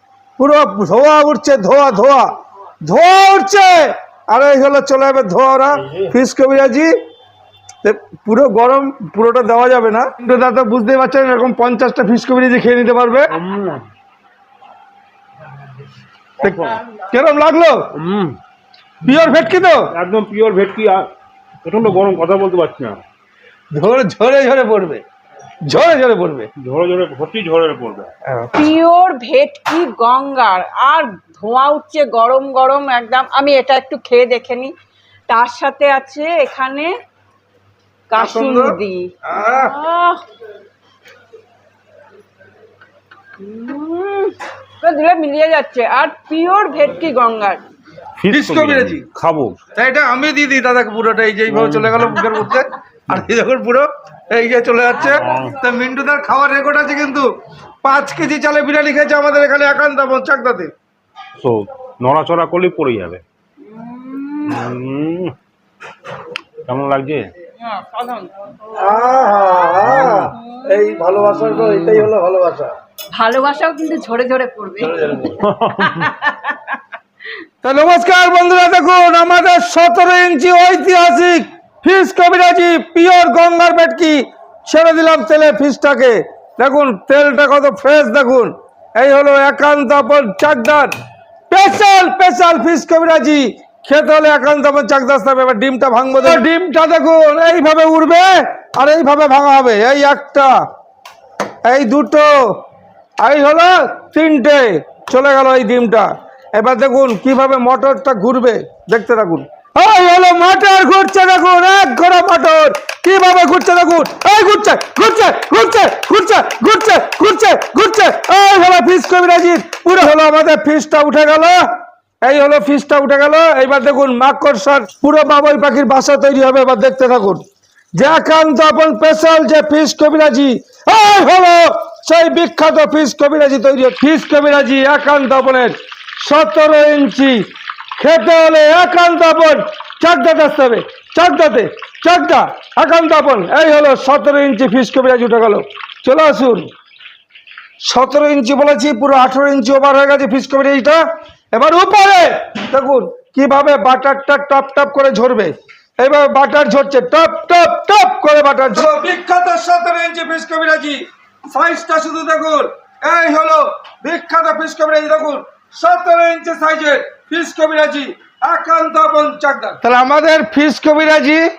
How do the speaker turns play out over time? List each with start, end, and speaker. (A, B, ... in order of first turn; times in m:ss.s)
0:00.4-0:02.3 A
0:02.8-0:06.9 A
0:07.8-0:13.3 A
0:13.3-0:13.9 B
0:16.4-0:16.8 B
0:16.4-0:17.9 A
0:17.9-0:18.4 B
0:19.0-0:19.9 A
0:19.9-0:21.0 B
0:21.6-0:23.0 B
0:23.7-0:25.0 A
0:25.6-0:26.5 A
0:26.6-0:28.1 B
0:28.3-0:28.5 A
0:28.5-0:34.7 C
0:35.3-0:36.9 C
0:38.1-0:39.0 C
0:38.2-0:39.8 A
0:39.6-0:40.2 C
0:43.4-0:47.6 C
0:48.2-0:49.6 B
0:48.3-0:49.1 A
0:49.8-0:57.3 A
0:51.5-0:52.2 B
0:55.0-0:55.6 B
0:57.8-1:00.7 A
1:01.4-1:03.2 B
1:03.6-1:04.7 C
1:04.5-1:05.3 B
1:06.7-1:07.3 B
1:07.6-1:12.0 C
1:08.8-1:12.7 A
1:09.8-1:10.3 B
1:13.1-1:16.8 C
1:15.3-1:16.1 B
1:17.6-1:30.9 A
1:31.5-1:40.6 A
1:41.7-1:42.3 A
1:43.2-2:01.7 A
2:02.2-2:07.4 A
2:07.9-2:26.7 A
2:27.8-2:31.0 A
2:31.5-2:51.4 A